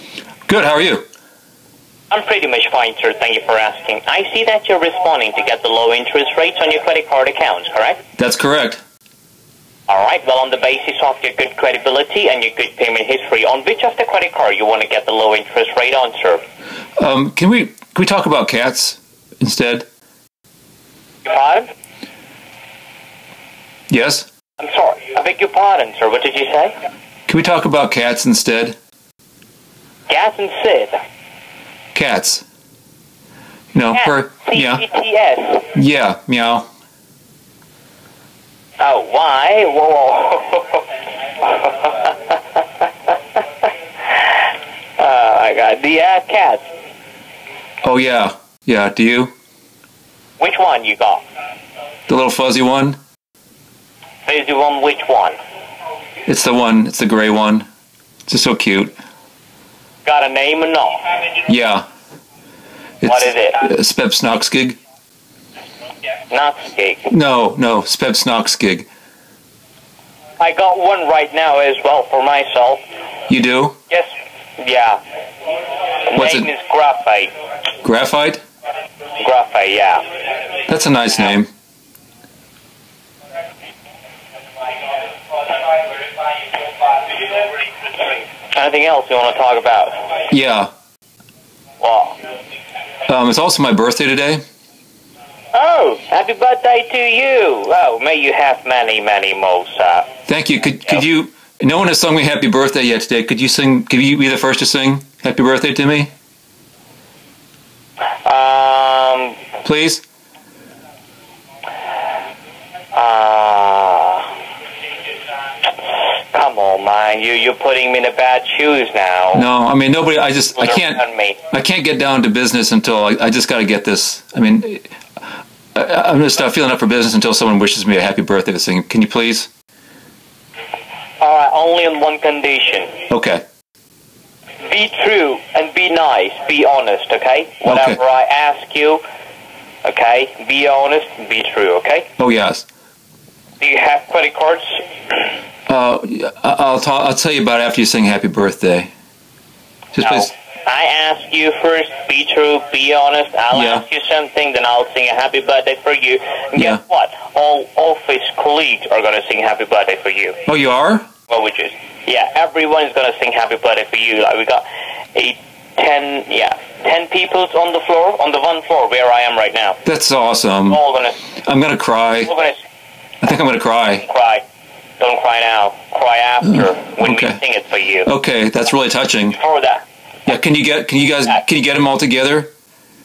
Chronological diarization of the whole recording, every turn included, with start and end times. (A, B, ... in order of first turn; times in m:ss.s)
0:00.5-0:01.0 A
0:02.1-0:08.0 B
0:08.2-0:08.8 A
0:09.9-0:16.4 B
0:17.0-0:19.9 A
0:21.2-0:21.7 B
0:23.9-0:24.3 A
0:24.6-0:26.7 B
0:27.3-0:28.8 A
0:30.1-0:31.0 B
0:31.9-0:32.4 A
0:33.7-0:34.8 A
0:33.9-0:35.7 B
0:35.8-0:36.7 A
0:38.8-0:40.8 B
0:41.4-0:43.1 B
0:45.0-0:46.6 B
0:47.8-0:49.3 A
0:50.4-0:51.2 B
0:52.1-0:53.0 A
0:54.3-0:55.4 B
0:56.3-0:57.7 A
0:58.3-0:59.0 A
1:00.0-1:01.0 B
1:01.5-1:01.9 A
1:03.0-1:04.8 A
1:03.0-1:03.6 B
1:06.3-1:07.1 B
1:07.1-1:08.9 A
1:10.4-1:12.8 B
1:13.3-1:13.8 A
1:13.9-1:15.0 B
1:16.1-1:17.3 B
1:16.2-1:16.5 A
1:17.8-1:18.4 A
1:19.2-1:20.0 B
1:20.7-1:21.5 A
1:28.5-1:30.1 B
1:30.3-1:30.7 A
1:31.8-1:32.2 B
1:33.1-1:34.4 A
1:35.5-1:40.1 B
1:40.3-1:46.1 A
1:48.2-1:49.4 B
1:49.6-1:50.0 A
1:52.9-1:54.3 B
1:56.3-1:59.5 B
1:59.3-2:04.9 A
2:00.6-2:01.4 B
2:05.7-2:09.5 A
2:11.2-2:12.9 B
2:13.1-2:13.4 A
2:14.6-2:19.0 B
2:17.7-2:18.0 A
2:19.8-2:22.1 B
2:22.2-2:22.7 A
2:23.6-2:24.8 B
2:25.7-2:28.9 A
2:30.0-2:30.3 A
2:30.0-2:40.4 B
2:33.5-2:33.8 A
2:36.6-2:36.8 A
2:40.5-2:41.1 A
2:41.3-2:49.8 B
2:49.8-2:50.8 A
2:50.7-2:51.2 B
2:51.4-2:52.3 A
2:52.2-2:52.6 B
2:53.2-2:54.0 A
2:54.0-2:54.4 B
2:55.0-2:58.1 B
2:57.0-2:57.4 A
2:58.0-2:59.4 A
2:59.3-2:59.8 B
3:00.3-3:02.5 A